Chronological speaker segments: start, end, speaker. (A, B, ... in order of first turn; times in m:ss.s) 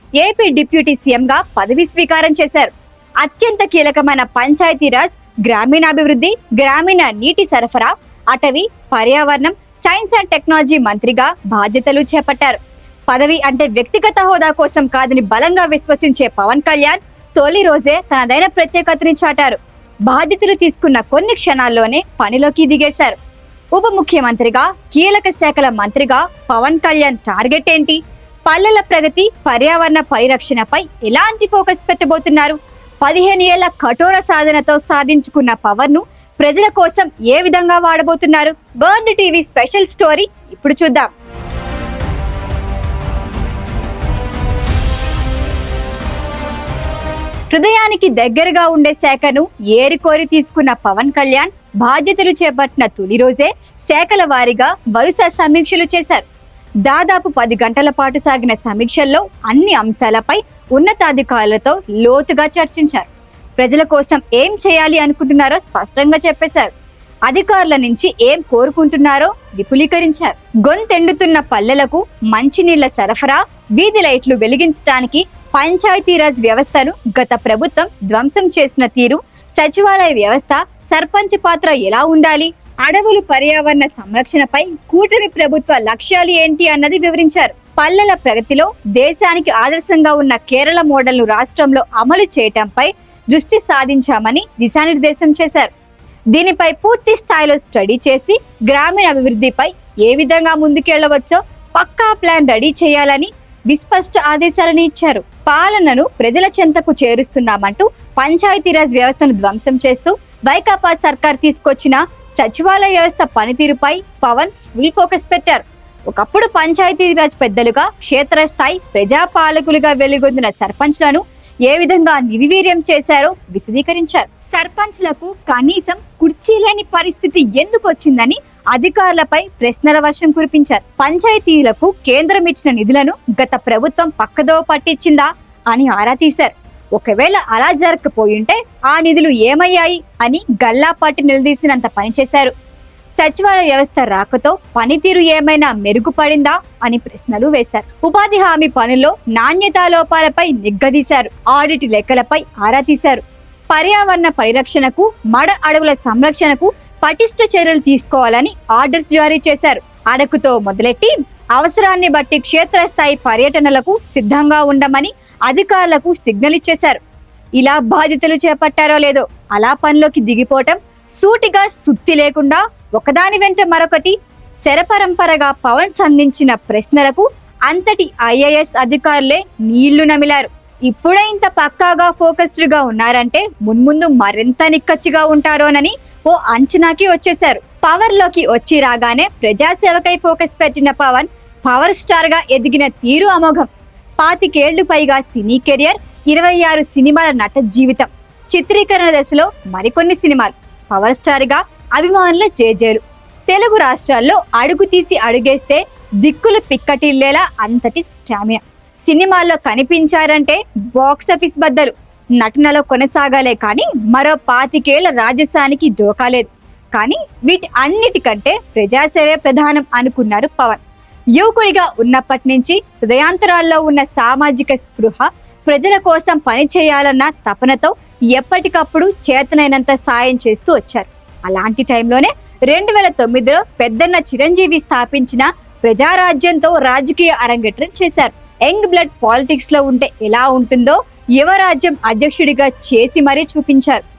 0:00.2-0:02.7 A
0:03.2-0:23.2 A
0:23.7-0:41.1 A
0:47.5-0:56.2 A
0:56.8-1:06.7 A
1:07.3-1:35.7 A
1:36.3-2:22.5 A
2:23.2-2:47.0 A
2:47.6-3:40.8 A
3:41.4-4:04.0 A